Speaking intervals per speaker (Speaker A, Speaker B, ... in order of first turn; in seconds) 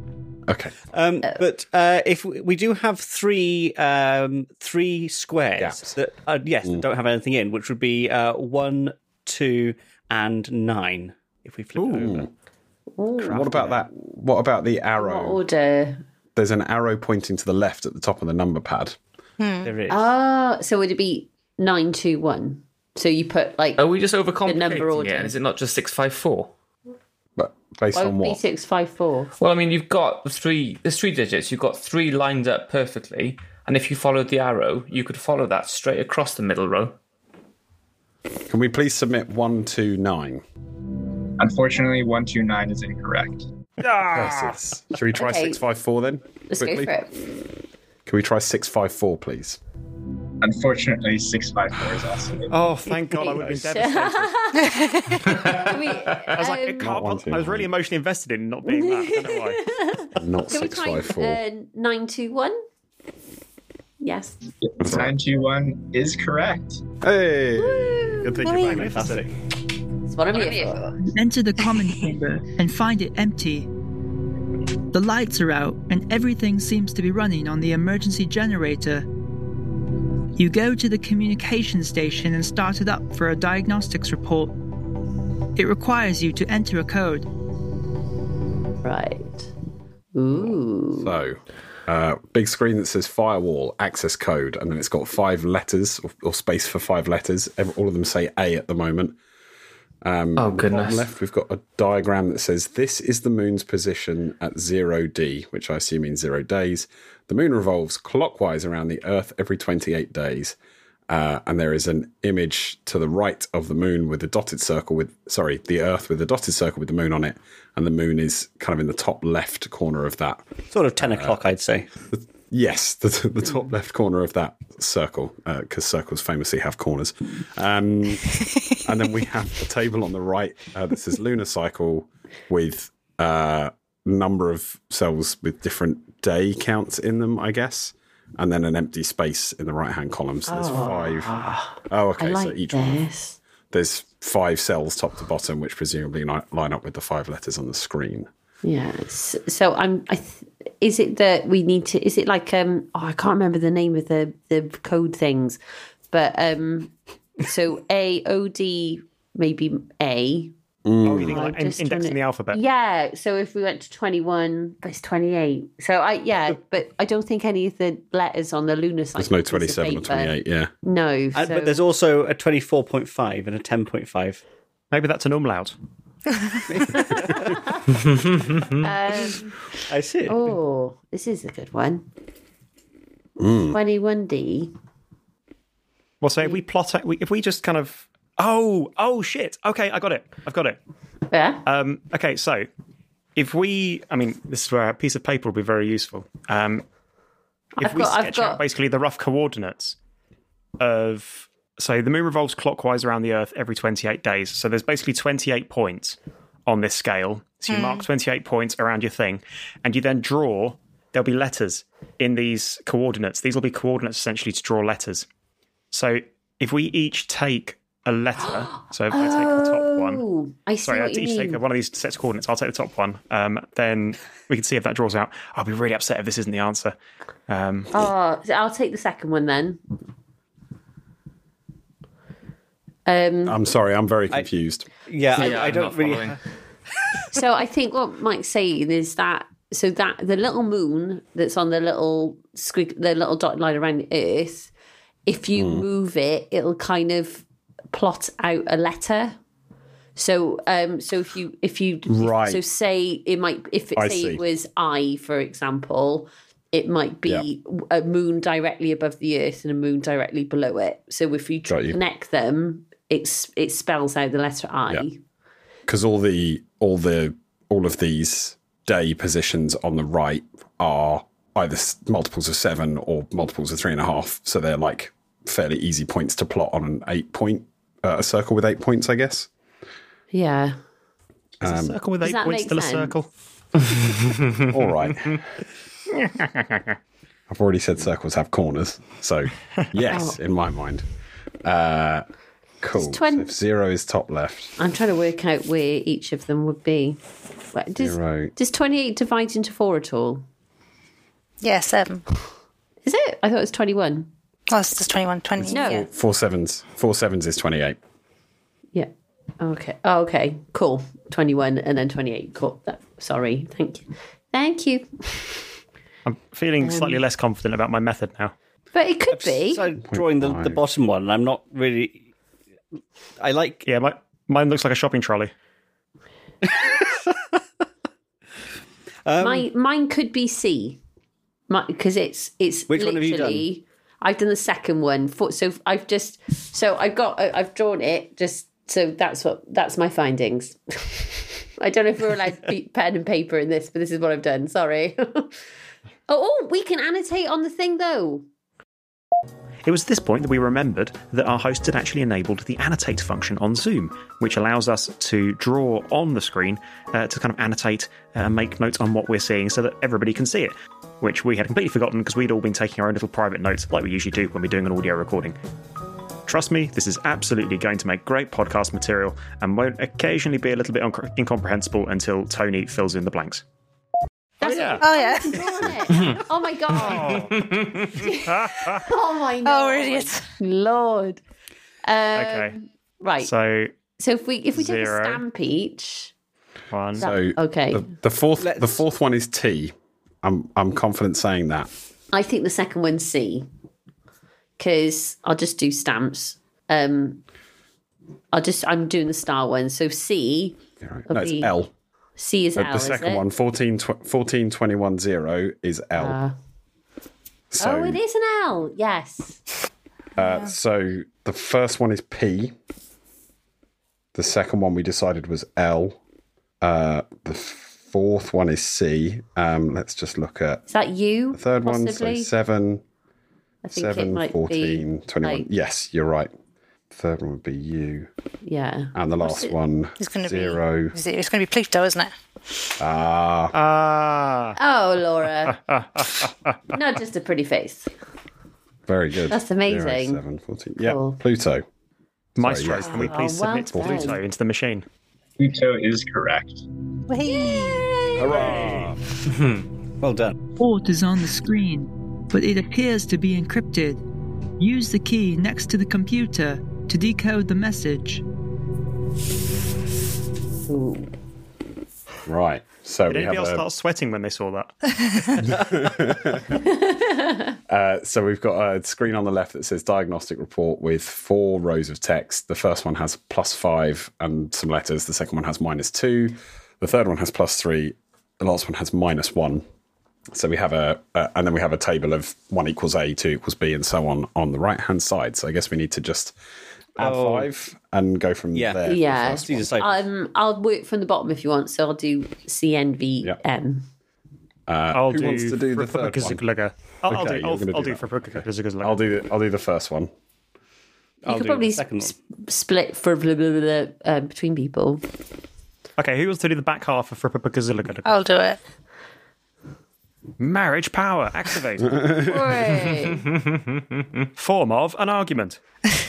Speaker A: 0.5-0.8, 5.6-6.0, 11.8-12.3, 13.2-15.4, 16.4-19.0, 27.4-28.4, 38.5-40.4, 44.0-46.9, 48.0-49.6, 56.8-57.7, 60.1-61.4, 64.8-65.1, 67.0-69.2, 90.3-99.2, 100.0-110.5, 111.1-120.4, 121.0-121.4, 122.1-141.3, 141.8-143.0, 143.7-148.3, 160.8-161.4, 169.2-170.7, 183.4-183.8, 233.4-234.9, 245.6-245.8, 252.1-252.6, 253.9-254.4, 261.7-262.0, 265.9-279.5, 281.6-282.0, 284.7-285.4, 287.5-291.1, 291.6-292.2, 292.8-294.7, 298.0-298.5, 305.7-308.0, 320.0-320.8, 387.2-391.9, 401.0-401.9, 402.8-406.4, 407.7-408.2, 410.4-412.7, 414.3-416.2, 416.8-420.8, 421.5-423.0, 423.9-426.5, 427.1-428.3, 429.1-431.2, 433.0-433.7, 439.1-441.8, 442.6-443.4, 443.9-444.3, 448.4-449.2, 462.4-463.8, 465.6-466.8, 467.9-479.8, 480.5-486.5, 487.1-489.9, 494.9-496.6, 497.3-500.3
Speaker B: 0.9-12.3, 13.4-13.8, 19.6-20.1, 68.5-69.3, 120.7-121.9, 171.3-174.4, 176.7-177.7, 179.9-180.6, 235.1-236.4, 319.3-322.2, 323.4-323.8, 326.6-327.5, 329.2-329.7, 332.9-333.7, 388.6-389.0, 450.2-450.5, 487.2-487.7, 488.7-490.2, 501.4-502.3
Speaker C: 13.0-13.6, 15.0-16.0, 19.9-23.8, 24.4-25.4, 27.9-29.3, 45.1-45.6, 46.5-47.1, 52.9-56.9, 58.7-62.6, 64.0-64.4, 67.6-68.4, 70.0-70.9, 88.8-89.5, 90.1-91.1, 140.5-143.4, 148.6-155.6, 156.1-160.5, 161.1-171.8, 176.9-177.9, 178.7-179.6, 180.2-182.0, 183.7-184.7, 191.3-191.6, 197.8-198.6, 218.4-221.6, 227.9-229.8, 233.1-233.6, 237.3-244.7, 245.2-249.4, 250.2-265.2, 280.3-280.8, 282.2-283.1, 290.1-290.4, 292.9-293.5, 294.8-297.2, 297.7-300.4, 303.0-304.3, 305.7-306.0, 308.9-315.6, 316.8-317.2, 318.9-319.9, 329.4-331.0, 331.7-345.5, 346.3-348.4, 374.6-381.4, 382.0-383.5, 384.2-386.3, 387.2-388.1, 392.3-393.7, 394.8-397.4, 398.5-401.7, 402.4-403.4, 406.1-406.5, 407.8-409.6, 420.9-422.5, 423.8-425.7, 428.6-429.7, 434.8-435.8, 436.9-438.1, 439.5-440.4, 441.0-441.4, 443.0-444.4, 447.5-449.0, 460.9-461.3, 466.9-467.7, 489.0-494.0, 501.5-505.2, 512.4-513.5
Speaker D: 19.4-19.7, 54.7-55.2, 68.4-68.8, 207.7-208.0, 301.6-302.2, 304.7-306.1, 375.0-375.9, 379.6-380.5, 430.2-432.3, 447.3-448.2, 508.2-508.8
Speaker E: 23.8-26.5, 29.4-37.0, 55.2-55.6, 100.3-101.1, 178.0-178.8, 235.3-236.4, 377.4-378.0, 513.6-514.2
Speaker F: 41.4-43.5, 50.4-52.5, 64.6-66.8, 445.6-446.8
Speaker G: 43.8-44.6, 52.5-54.6, 56.3-59.6, 68.6-68.9, 161.1-162.6, 174.9-175.8, 186.2-190.8, 191.6-192.7, 193.3-196.8, 197.8-200.0, 200.8-215.2, 215.9-220.2, 220.9-226.9, 227.5-227.9, 281.6-283.3, 316.2-318.5, 323.9-325.5, 349.8-365.6, 366.5-373.6, 374.6-375.0, 376.9-377.6, 378.5-379.0, 382.4-382.7, 383.4-383.9, 384.7-385.4, 386.9-387.3, 433.7-434.8, 435.9-436.5, 442.6-445.1, 463.3-465.4, 495.1-499.2, 506.2-508.3, 510.6-512.5, 514.6-515.8
Speaker H: 71.0-73.7, 74.9-79.1, 80.3-84.5, 85.5-87.3, 450.8-454.2, 454.8-458.4